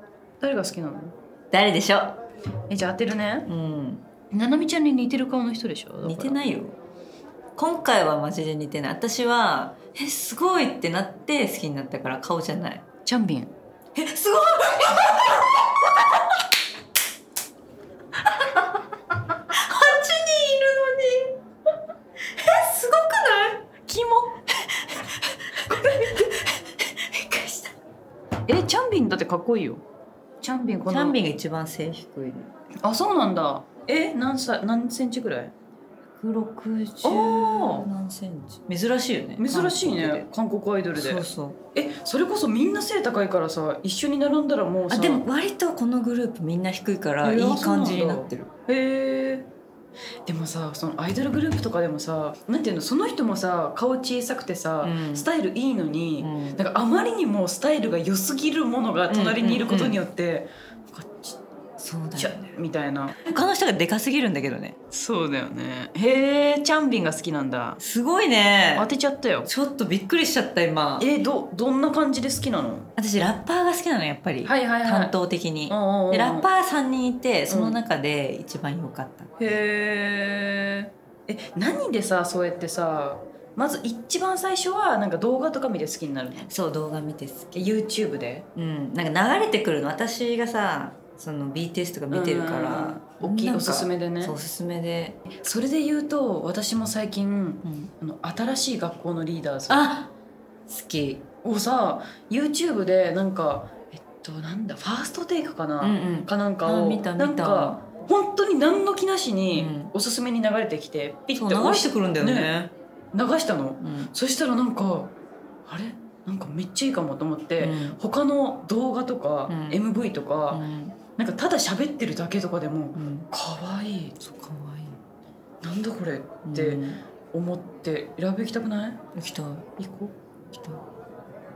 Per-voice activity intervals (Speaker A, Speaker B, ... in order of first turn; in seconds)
Speaker A: 0.4-1.1, 2.7-3.5, 4.3-6.4, 13.1-13.5, 23.8-24.4, 25.6-26.3, 28.5-29.8, 30.4-31.2, 32.8-35.5, 37.0-37.9, 39.4-45.2, 47.2-49.5, 50.2-61.4, 62.1-63.2, 64.9-67.8, 68.8-69.5, 71.0-72.9, 74.4-75.1, 75.7-76.5, 77.5-77.8, 79.4-86.5, 87.5-88.5, 92.1-94.4, 95.3-99.9, 101.4-112.5, 113.1-115.1, 115.7-120.6, 121.2-124.2, 125.6-129.0, 129.8-130.2
Speaker B: 1.5-2.2, 3.5-4.0, 6.0-6.8, 7.5-12.8, 13.9-16.1, 19.5-21.4, 22.4-23.6, 24.9-27.7, 30.9-32.5, 36.1-40.2, 40.9-41.6, 44.9-48.5, 54.8-55.3, 56.2-56.6, 59.1-60.0, 61.8-62.5, 63.1-64.8, 67.8-68.9, 69.5-71.1, 73.0-79.3, 86.4-87.7, 88.5-95.2, 97.6-97.9, 99.7-100.1, 100.7-101.2, 105.8-107.8, 109.5-109.9, 111.3-112.7, 113.8-114.1, 117.6-118.0, 119.5-119.8, 120.5-121.0, 122.9-123.3, 124.2-125.0, 126.4-127.0, 129.1-129.7, 130.5-130.8